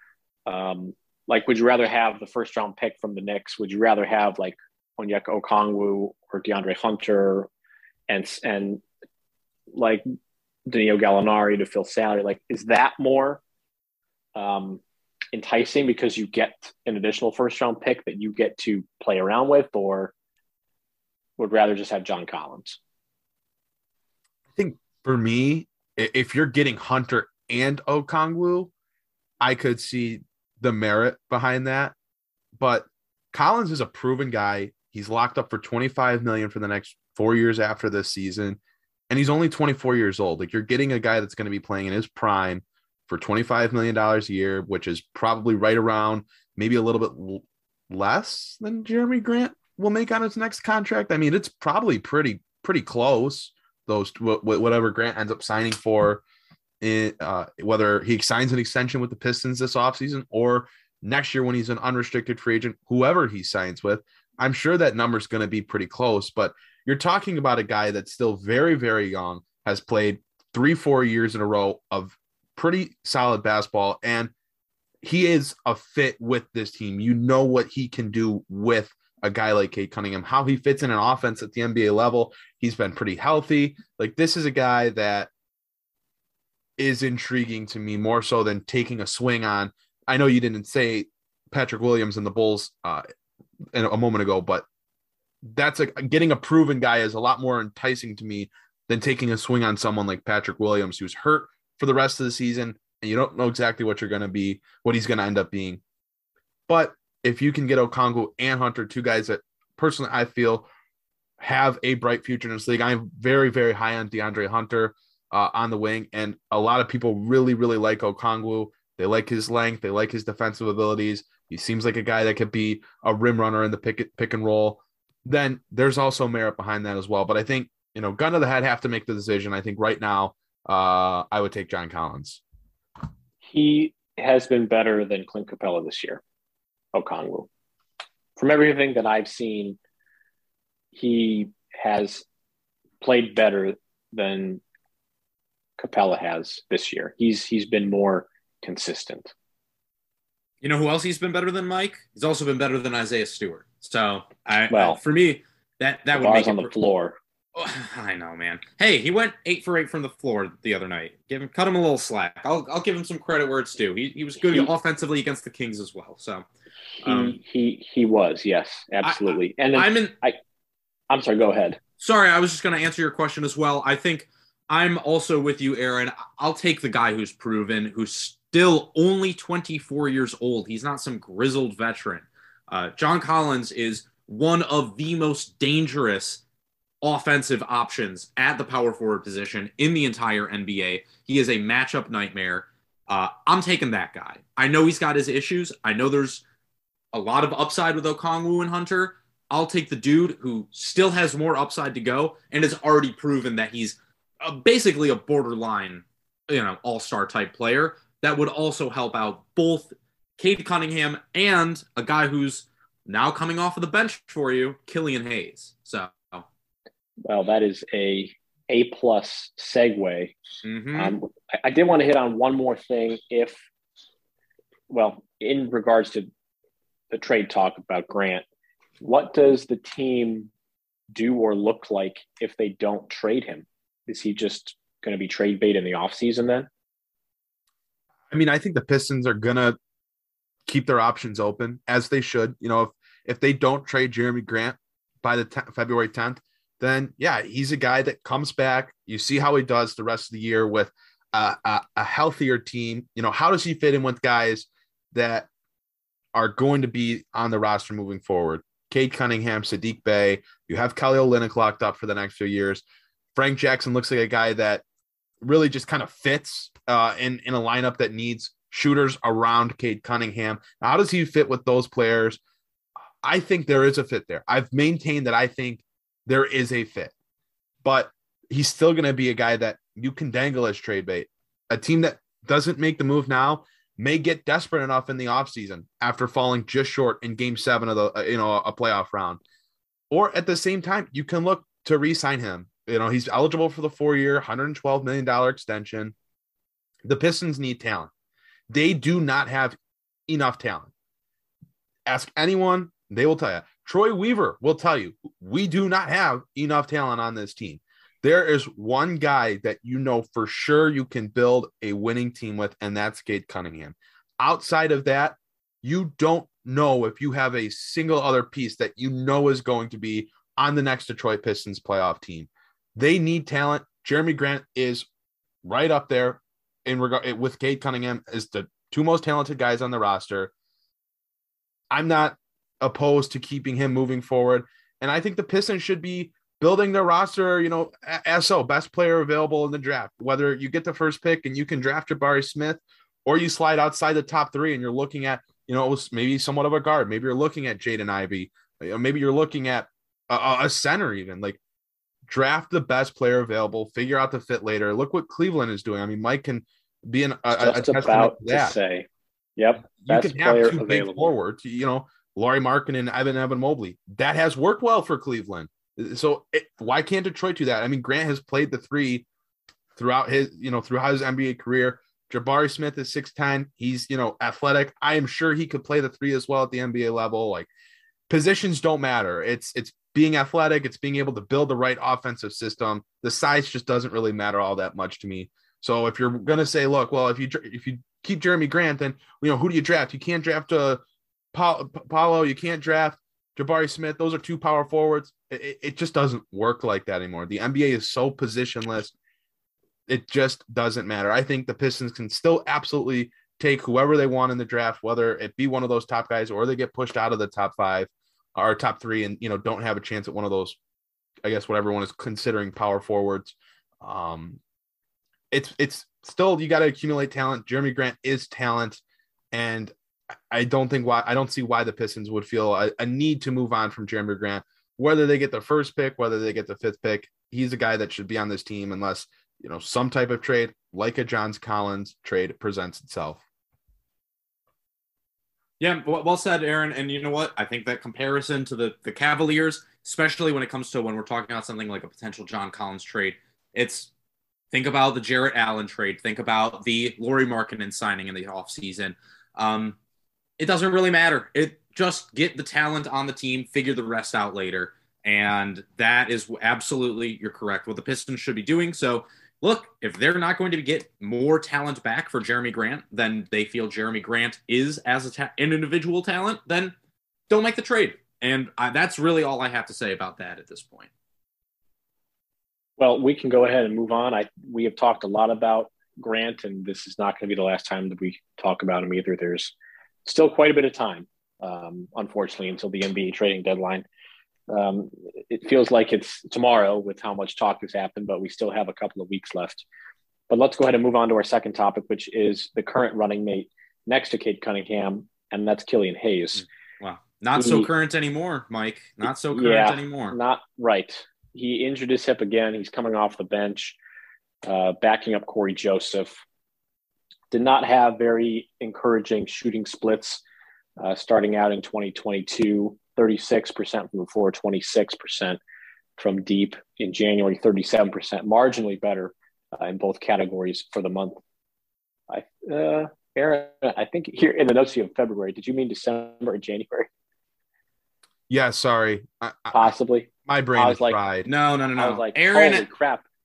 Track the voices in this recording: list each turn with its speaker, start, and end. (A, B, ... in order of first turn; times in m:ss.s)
0:00.4-0:07.5 A
0:08.1-0:08.8 A
0:09.7-0:10.0 A
0:10.7-0:13.4 A
0:14.4-0:14.8 A
0:15.3-0:20.1 A
0:21.4-0:22.8 A
0:24.6-0:28.7 B
0:29.4-0:31.9 B
0:32.6-0:38.6 B
0:39.1-0:56.2 B
0:56.8-1:14.3 B
1:15.0-1:25.3 B
1:26.8-1:33.0 B
1:33.7-1:34.6 B
1:35.4-1:45.8 B
1:46.7-1:50.7 B
1:51.4-2:12.4 B
2:13.4-2:16.2 A
2:16.9-2:17.5 A
2:18.4-2:19.8 A
2:20.9-2:22.2 A
2:23.0-2:24.6 A
2:25.8-2:29.3 A
2:30.6-2:36.7 C
2:34.7-2:35.0 A
2:36.1-2:37.2 A
2:37.6-2:46.4 C
2:44.4-2:44.7 A
2:47.0-2:47.4 C
2:47.0-2:50.4 A
2:49.0-2:50.1 C
2:51.1-2:51.8 A
2:52.0-3:06.4 C
3:07.0-3:16.4 C
3:17.1-3:36.4 C
3:37.3-3:40.3 A
3:40.6-3:41.2 C
3:40.9-3:43.6 A
3:44.9-3:46.3 A
3:47.1-3:48.4 A
3:49.0-3:50.5 A
3:51.1-3:56.7 A
3:58.3-3:59.8 B
4:00.7-4:15.5 B
4:16.3-4:22.8 B
4:23.3-4:24.8 B
4:25.4-4:32.4 B
4:33.2-4:37.1 B
4:37.8-4:49.4 B
4:50.1-4:56.1 B
4:57.0-4:58.1 B
4:58.7-4:59.8 B
5:00.3-5:00.9 B
5:02.0-5:25.1 B
5:25.6-5:30.5 B
5:31.9-5:51.6 B
5:52.3-5:58.8 B
5:57.5-6:01.3 A
6:00.0-6:09.2 B
6:09.9-6:17.7 B
6:18.3-6:31.0 B
6:31.5-6:39.1 B
6:40.1-6:50.8 B
6:51.4-6:54.6 B
6:55.5-6:59.0 B
6:59.5-6:59.9 B
7:00.5-7:13.4 B
7:15.8-7:24.1 C
7:24.7-7:30.0 C
7:30.6-7:46.9 C
7:47.5-7:51.1 C
7:53.0-7:59.7 A
8:00.2-8:04.0 A
8:04.7-8:09.8 A
8:10.5-8:16.6 A
8:16.6-8:20.4 C
8:17.5-8:17.9 A
8:19.2-8:24.0 A
8:24.6-8:26.4 A
8:27.5-8:30.4 A
8:31.0-8:35.6 A
8:36.2-8:41.4 A
8:42.3-8:47.1 A
8:48.5-8:49.9 B
8:49.7-8:51.2 A
8:50.4-8:51.5 B
8:51.4-8:52.9 C
8:52.0-8:53.2 A